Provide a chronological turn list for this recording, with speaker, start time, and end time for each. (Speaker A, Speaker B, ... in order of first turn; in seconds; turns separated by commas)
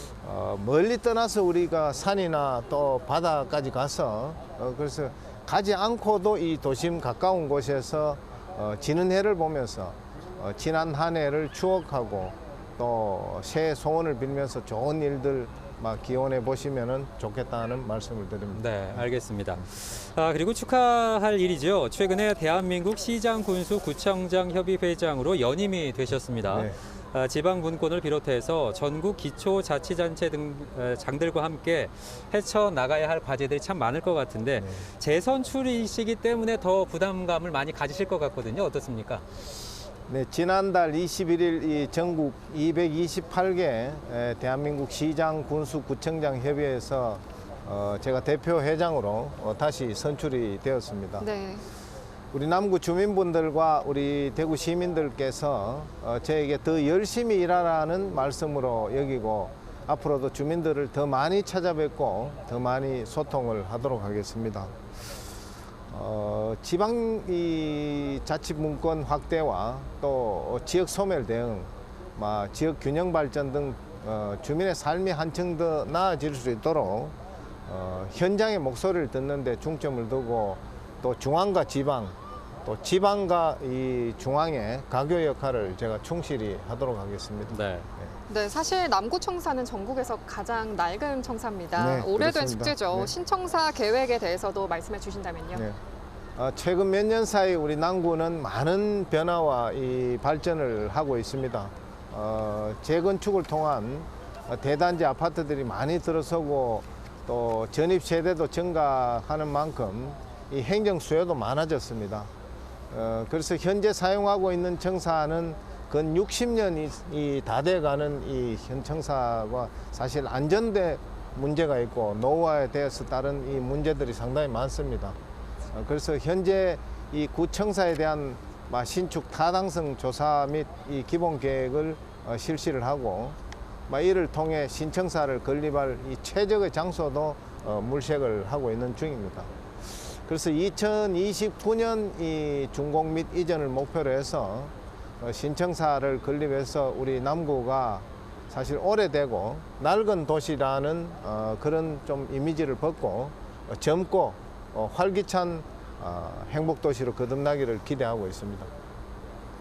Speaker A: 0.2-19.1, Speaker B: 18.5-39.2, Speaker A: 26.5-26.8, Speaker A: 34.6-34.9, Speaker A: 40.1-51.3, Speaker C: 51.2-51.6, Speaker A: 52.3-64.7, Speaker A: 65.9-77.2, Speaker A: 77.7-88.1, Speaker B: 87.5-87.9, Speaker C: 88.3-95.7, Speaker A: 91.8-93.1, Speaker A: 95.5-95.8, Speaker A: 96.4-112.3, Speaker A: 112.9-125.2, Speaker A: 125.7-133.4, Speaker A: 133.9-139.5, Speaker A: 140.2-158.7